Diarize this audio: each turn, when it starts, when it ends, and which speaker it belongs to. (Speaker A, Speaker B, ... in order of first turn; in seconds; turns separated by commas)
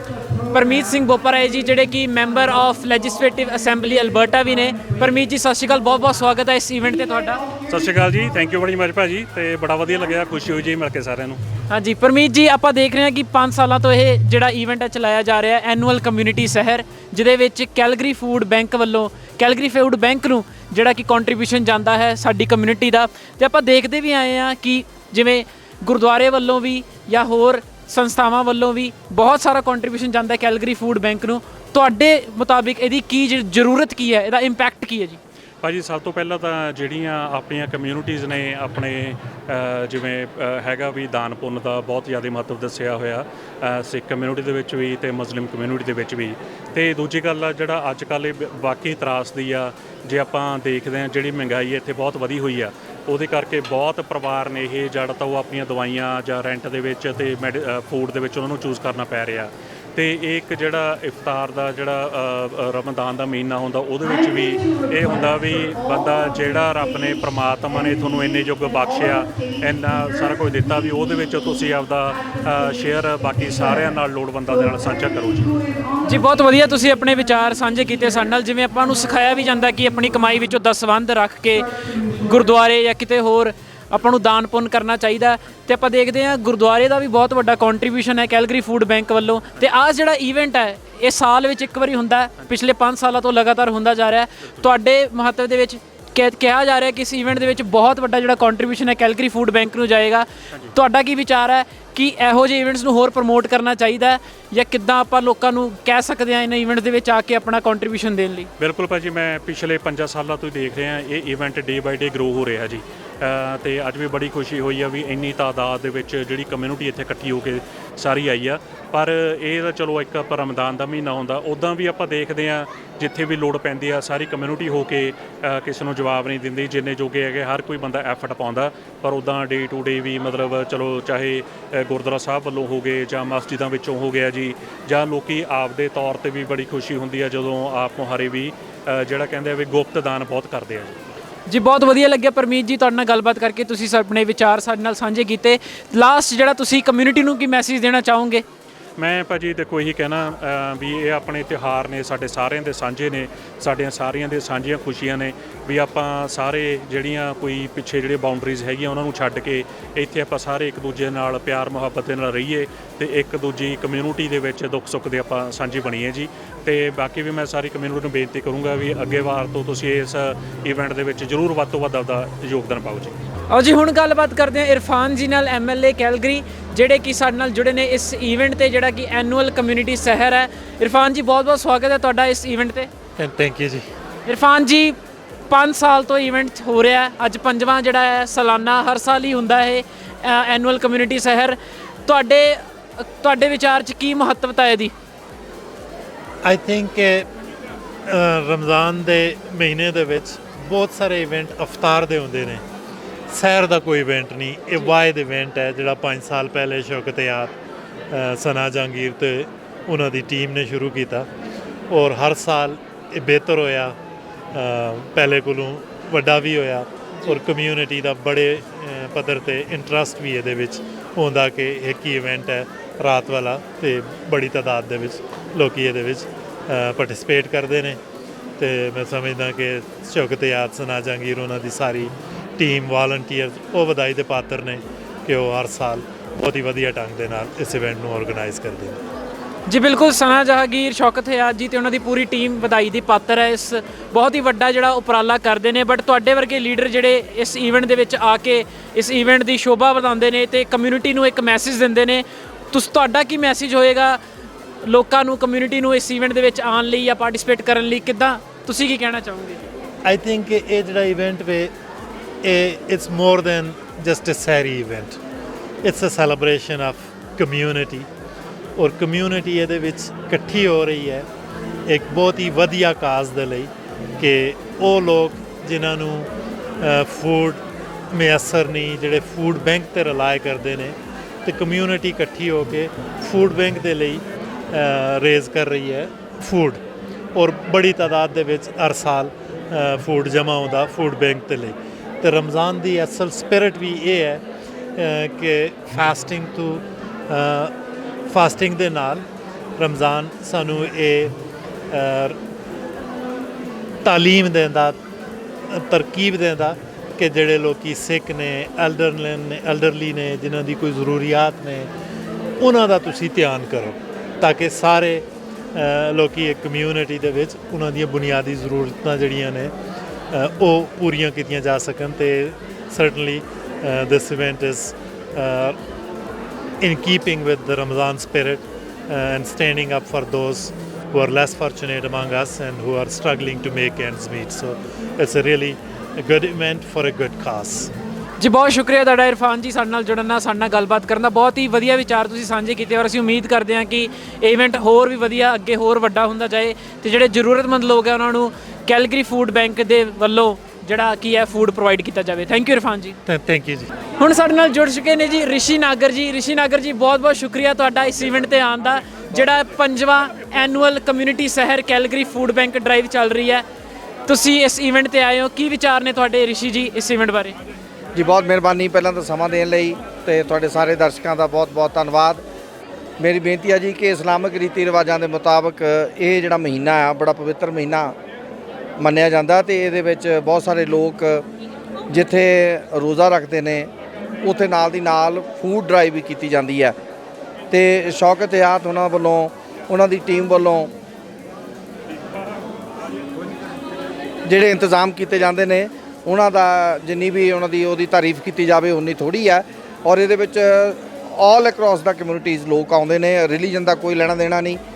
Speaker A: 0.5-7.5, Speaker B: 7.7-11.4, Speaker A: 11.7-35.2, Speaker B: 35.6-75.5, Speaker A: 76.0-108.5, Speaker B: 108.6-141.0, Speaker A: 141.5-148.4, Speaker B: 149.0-173.2, Speaker A: 173.5-182.9, Speaker C: 183.2-183.9, Speaker A: 184.3-185.0, Speaker A: 185.5-194.9, Speaker C: 196.4-197.3, Speaker C: 198.1-202.6, Speaker C: 203.3-207.6, Speaker C: 208.1-211.3, Speaker C: 211.9-214.0, Speaker C: 214.5-228.0, Speaker C: 228.6-239.0, Speaker A: 239.7-254.2, Speaker A: 254.8-259.6, Speaker C: 260.0-261.7, Speaker C: 262.4-265.2, Speaker C: 265.8-268.1, Speaker C: 268.8-271.3, Speaker C: 271.9-286.8, Speaker C: 287.3-294.4, Speaker C: 295.0-297.7, Speaker C: 298.3-299.3, Speaker C: 299.8-301.4, Speaker C: 301.9-302.4, Speaker C: 304.0-305.0, Speaker C: 305.7-311.9, Speaker C: 312.6-319.7, Speaker C: 320.3-325.8, Speaker C: 326.8-337.9, Speaker A: 338.4-353.2, Speaker C: 353.3-353.9, Speaker A: 354.2-363.6, Speaker A: 364.3-367.6, Speaker D: 368.1-372.4, Speaker D: 373.2-378.2, Speaker D: 379.0-381.4, Speaker D: 382.1-383.9, Speaker D: 384.4-386.9, Speaker D: 387.7-390.9, Speaker D: 394.5-404.8